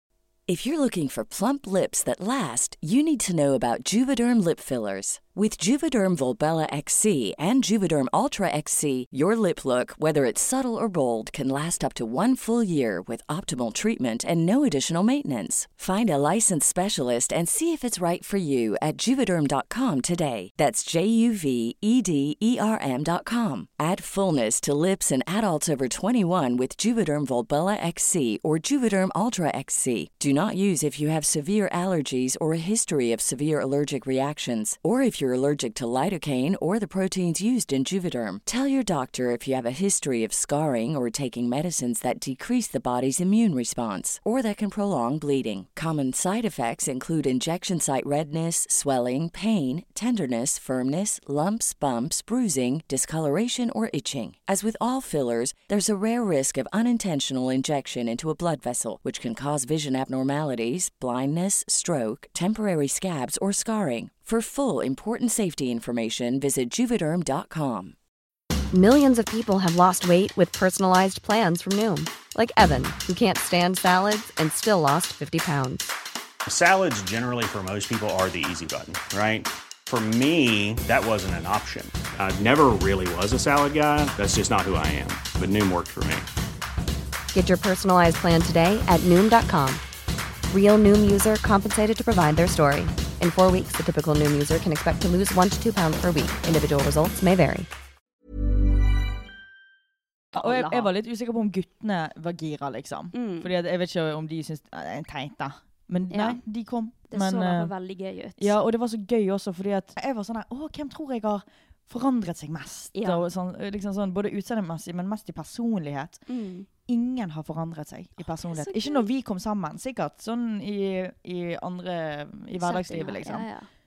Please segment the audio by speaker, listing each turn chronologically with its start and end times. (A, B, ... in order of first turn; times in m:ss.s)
0:00.5-1:08.0 A
1:08.7-1:15.9 B
1:16.4-1:26.3 C
1:27.3-1:29.8 B
1:30.5-1:37.7 B
1:40.3-1:40.9 D
1:40.3-1:47.7 E
1:43.1-1:43.5 D
1:46.1-1:46.4 D
1:47.1-1:48.5 D
1:48.4-1:56.2 E
1:52.9-1:53.2 D
1:56.3-1:56.7 D
1:56.8-2:03.4 E
1:58.2-1:59.1 D
2:02.6-2:03.7 D